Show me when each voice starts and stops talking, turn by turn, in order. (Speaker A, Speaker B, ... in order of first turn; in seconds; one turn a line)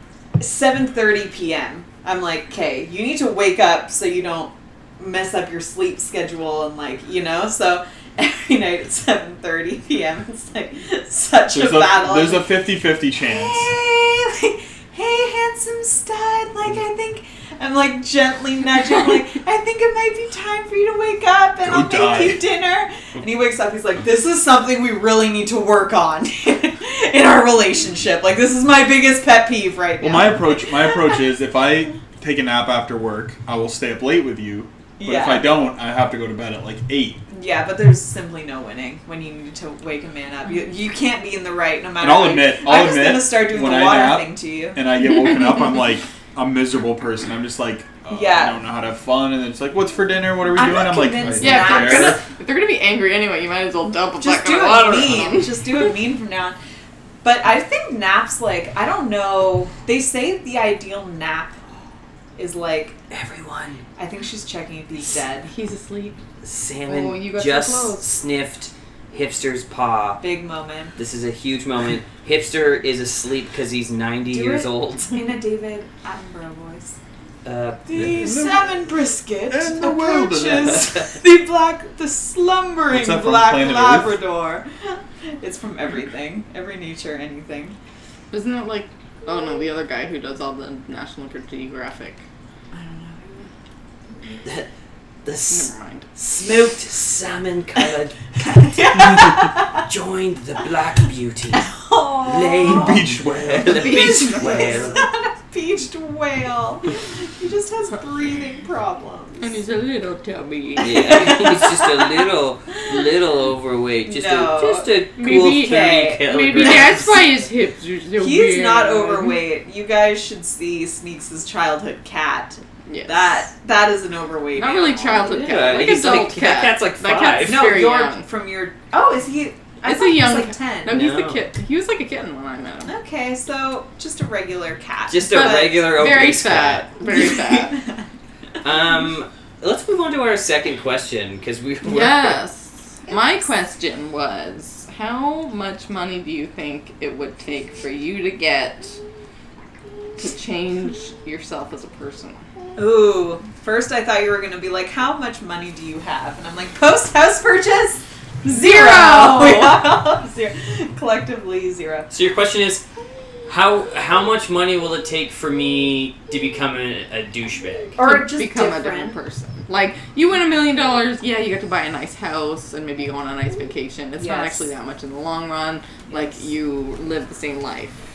Speaker A: 0.4-12.5
Speaker B: 11.5-13.7
Speaker A: 13.2-31.2
Speaker B: 21.6-22.4
Speaker B: 30.0-37.2
Speaker A: 35.0-35.5
Speaker A: 37.3-44.8
Speaker B: 42.0-52.2
Speaker A: 48.1-48.6
Speaker A: 50.5-52.2
Speaker C: 51.4-55.9
Speaker A: 54.2-56.6
Speaker A: 57.2-61.6
Speaker A: 62.4-63.0
Speaker D: 63.1-63.8
Speaker A: 64.0-65.5
Speaker C: 65.5-66.2
Speaker D: 66.4-70.2
Speaker C: 66.9-68.0
Speaker A: 70.2-70.9
Speaker D: 71.0-75.2
Speaker A: 74.3-77.0
Speaker D: 77.4-77.9
Speaker A: 77.9-87.8
Speaker B: 77.9-78.8
Speaker B: 79.5-80.9
Speaker B: 82.9-84.2
Speaker C: 88.3-92.2
Speaker A: 92.7-93.5
Speaker D: 95.2-101.7
Speaker C: 95.5-96.1
Speaker A: 98.5-99.7
Speaker A: 101.6-109.5
Speaker D: 102.2-105.0
Speaker B: 102.6-104.1
Speaker C: 109.4-111.3
Speaker A: 110.8-112.2
Speaker D: 110.8-117.2
Speaker A: 114.0-117.2
Speaker C: 115.2-119.4
Speaker A: 118.2-125.4
Speaker C: 122.8-123.4
Speaker C: 124.5-128.3
Speaker D: 125.3-127.7
Speaker A: 127.4-131.0
Speaker C: 129.8-132.9
Speaker D: 130.9-131.4
Speaker A: 132.8-135.9
Speaker D: 135.1-136.9
Speaker C: 135.2-137.8
Speaker A: 137.0-138.0
Speaker D: 138.6-142.4
Speaker C: 141.8-149.0
Speaker A: 143.1-143.5
Speaker C: 150.2-152.4
Speaker A: 152.8-162.1
Speaker C: 158.4-159.9
Speaker D: 162.1-162.8
Speaker D: 163.5-167.9
Speaker A: 168.0-169.2
Speaker C: 168.0-178.0
Speaker A: 174.2-174.7
Speaker A: 176.1-176.4